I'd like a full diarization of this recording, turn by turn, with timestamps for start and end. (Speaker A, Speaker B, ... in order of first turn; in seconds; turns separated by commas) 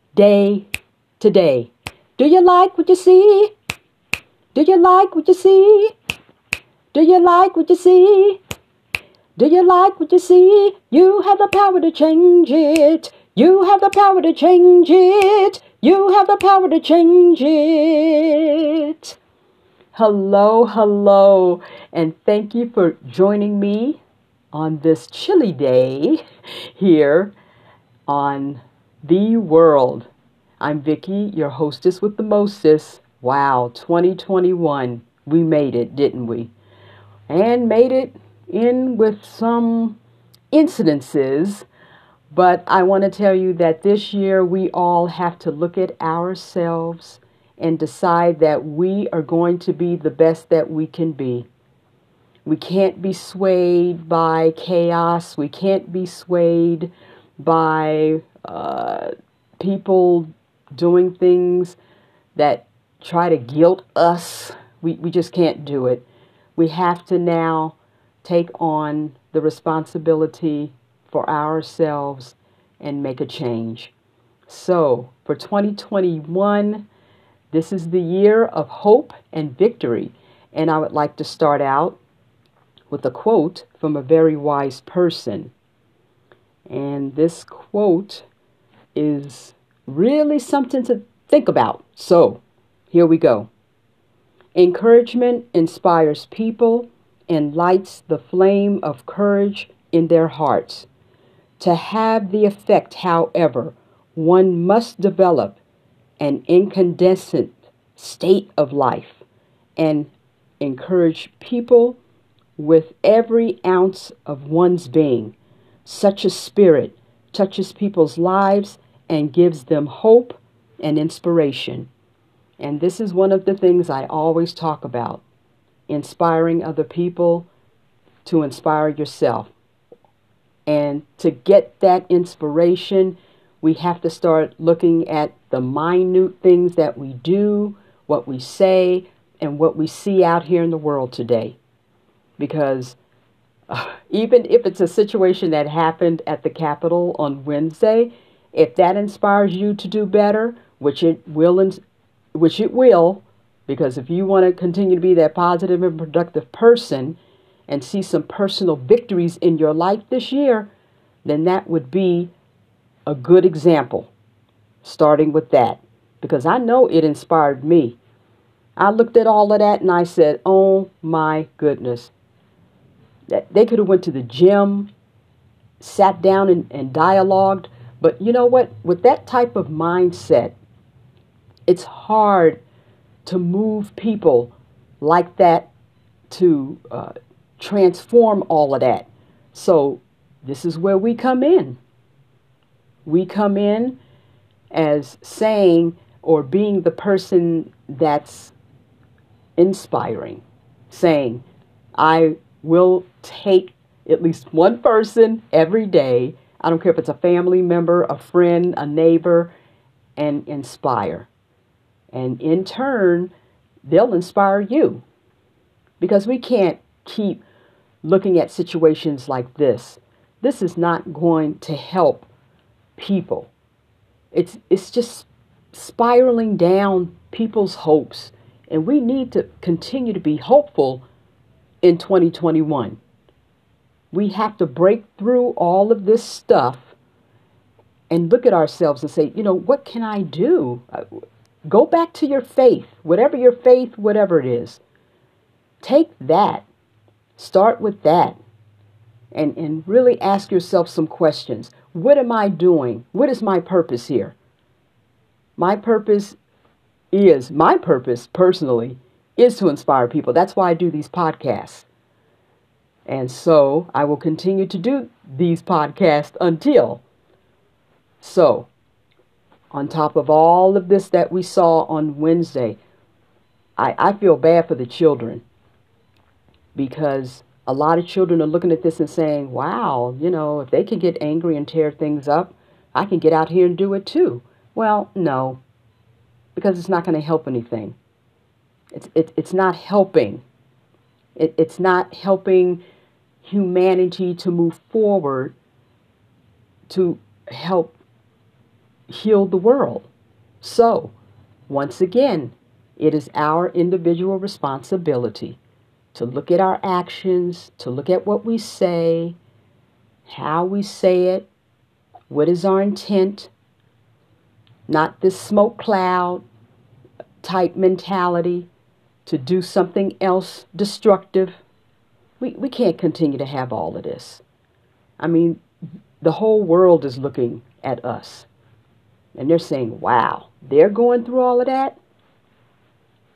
Speaker A: 0.1-0.7, Speaker A: 1.2-3.5, Speaker A: 4.5-5.9, Speaker A: 6.9-8.4, Speaker A: 9.4-19.2, Speaker A: 19.9-24.0, Speaker A: 24.5-26.2, Speaker A: 26.8-27.3, Speaker A: 28.1-30.1, Speaker A: 30.6-36.5, Speaker A: 37.3-40.0, Speaker A: 40.5-41.7, Speaker A: 42.3-51.5, Speaker A: 52.5-61.8, Speaker A: 62.3-66.0, Speaker A: 66.5-73.9, Speaker A: 74.5-76.9, Speaker A: 77.5-82.0, Speaker A: 82.9-85.5, Speaker A: 86.7-88.3, Speaker A: 88.9-93.5, Speaker A: 94.5-100.9, Speaker A: 101.6-105.6, Speaker A: 106.2-109.2, Speaker A: 109.8-112.0, Speaker A: 112.6-121.9, Speaker A: 122.6-125.2, Speaker A: 125.9-127.5, Speaker A: 128.2-129.5, Speaker A: 130.7-141.6, Speaker A: 142.4-143.0, Speaker A: 143.7-151.8, Speaker A: 152.3-160.7, Speaker A: 161.2-162.3, Speaker A: 163.1-164.1, Speaker A: 164.8-168.0, Speaker A: 168.8-172.1, Speaker A: 173.3-174.9, Speaker A: 175.8-180.6, Speaker A: 181.7-182.6, Speaker A: 183.2-185.7, Speaker A: 186.3-191.8, Speaker A: 193.0-194.0, Speaker A: 194.7-198.5, Speaker A: 199.6-201.4, Speaker A: 201.9-209.5, Speaker A: 210.2-211.3, Speaker A: 212.1-213.3, Speaker A: 213.8-215.0, Speaker A: 216.0-217.4, Speaker A: 218.0-222.3, Speaker A: 223.0-223.5, Speaker A: 224.3-231.0, Speaker A: 231.8-233.0, Speaker A: 234.1-236.9, Speaker A: 238.1-244.8, Speaker A: 245.8-246.7, Speaker A: 247.4-248.4, Speaker A: 249.3-254.3, Speaker A: 255.6-256.4, Speaker A: 257.1-261.9, Speaker A: 263.1-267.0, Speaker A: 268.2-268.7, Speaker A: 269.7-272.8, Speaker A: 273.8-275.4, Speaker A: 276.7-285.6, Speaker A: 286.5-287.9, Speaker A: 288.9-290.4, Speaker A: 291.4-292.8, Speaker A: 293.4-295.5, Speaker A: 296.9-297.9, Speaker A: 299.1-300.1, Speaker A: 300.6-301.1, Speaker A: 301.7-305.6, Speaker A: 306.1-309.4, Speaker A: 310.2-311.5, Speaker A: 312.3-313.5, Speaker A: 314.9-316.4, Speaker A: 317.4-318.7, Speaker A: 319.2-321.6, Speaker A: 322.4-324.4, Speaker A: 325.2-325.6, Speaker A: 326.2-328.5, Speaker A: 329.3-332.0